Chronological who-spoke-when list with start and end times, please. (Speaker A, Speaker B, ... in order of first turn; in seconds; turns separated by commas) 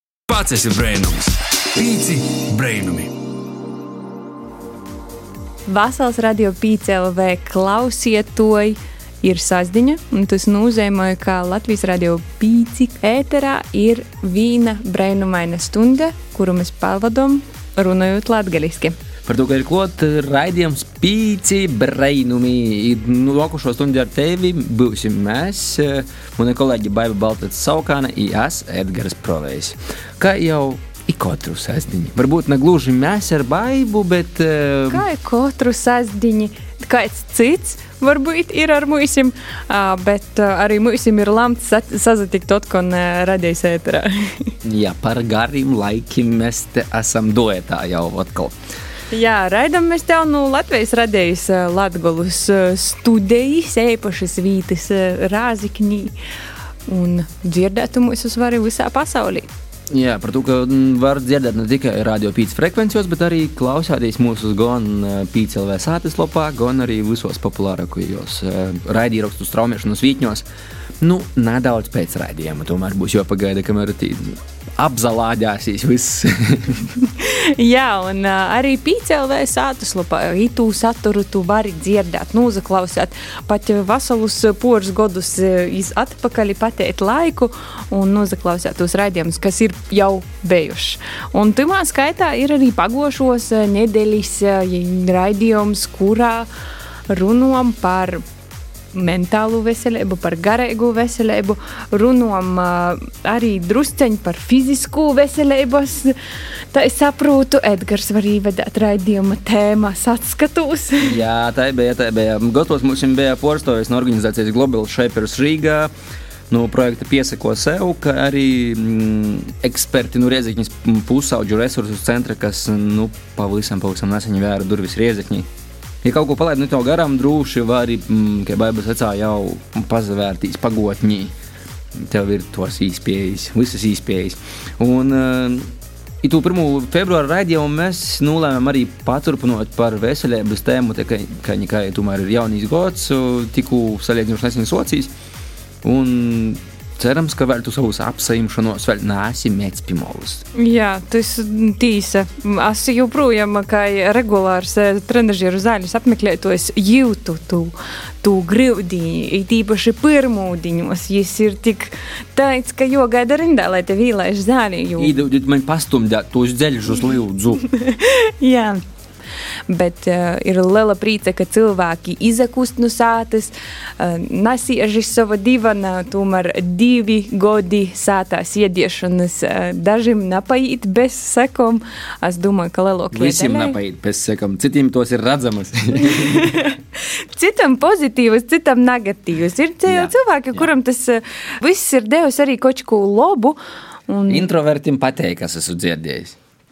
Speaker A: 0.3-3.1, Speaker B: 5.7-18.9, Speaker C: 19.2-35.1, Speaker B: 34.9-44.5, Speaker C: 44.6-48.5, Speaker B: 49.1-56.1, Speaker B: 56.9-59.5, Speaker C: 59.9-70.5, Speaker C: 71.0-76.9, Speaker B: 77.1-96.5, Speaker B: 97.1-98.2, Speaker B: 98.9-106.1, Speaker B: 106.7-111.2, Speaker C: 111.0-115.9, Speaker C: 116.5-125.5, Speaker C: 126.0-131.3, Speaker C: 131.9-135.7, Speaker C: 136.2-145.1, Speaker C: 145.8-150.4, Speaker B: 150.6-165.1, Speaker C: 165.0-167.6, Speaker B: 167.6-168.8, Speaker B: 169.7-183.8, Speaker C: 183.1-186.6, Speaker B: 186.1-186.8, Speaker B: 187.3-193.6, Speaker C: 189.9-190.7, Speaker B: 194.1-194.4, Speaker C: 194.3-196.3